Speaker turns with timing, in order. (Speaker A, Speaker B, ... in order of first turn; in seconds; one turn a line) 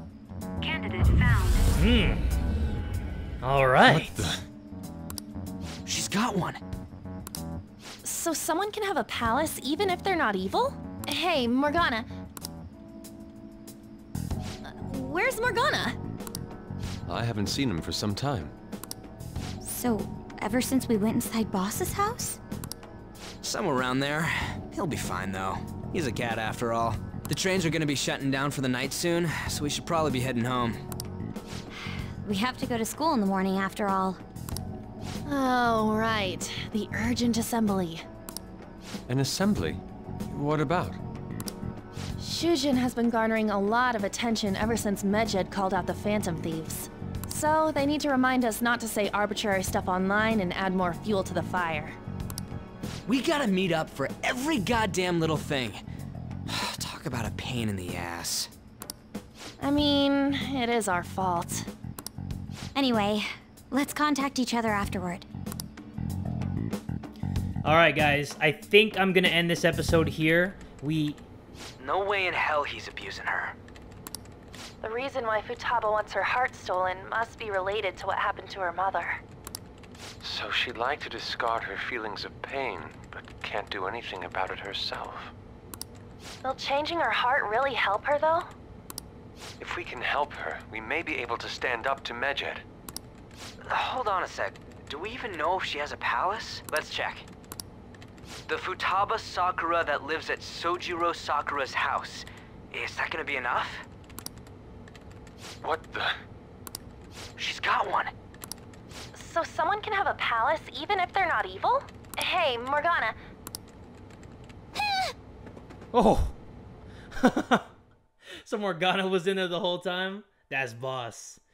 Speaker A: 0.6-1.4
Speaker B: 1.8-2.2
Speaker B: 3.4-4.4
Speaker C: 3.9-4.4
Speaker A: 5.8-6.6
Speaker D: 8.0-12.1
Speaker D: 14.6-16.0
Speaker C: 17.1-18.5
Speaker E: 19.6-22.4
Speaker A: 23.4-30.8
Speaker E: 32.2-34.2
Speaker D: 35.3-38.0
Speaker C: 39.1-41.0
Speaker D: 42.2-52.0
Speaker A: 53.1-55.8
Speaker A: 56.5-58.5
Speaker D: 59.6-61.7
Speaker E: 62.8-65.3
Speaker B: 67.7-71.2
Speaker A: 71.8-73.6
Speaker D: 74.8-79.2
Speaker C: 80.2-85.3
Speaker D: 86.4-88.5
Speaker C: 89.6-92.6
Speaker A: 93.7-97.3
Speaker A: 98.5-103.8
Speaker C: 105.6-106.2
Speaker A: 107.4-108.1
Speaker D: 109.1-113.2
Speaker B: 115.9-116.3
Speaker B: 117.1-117.7
Speaker B: 118.4-121.4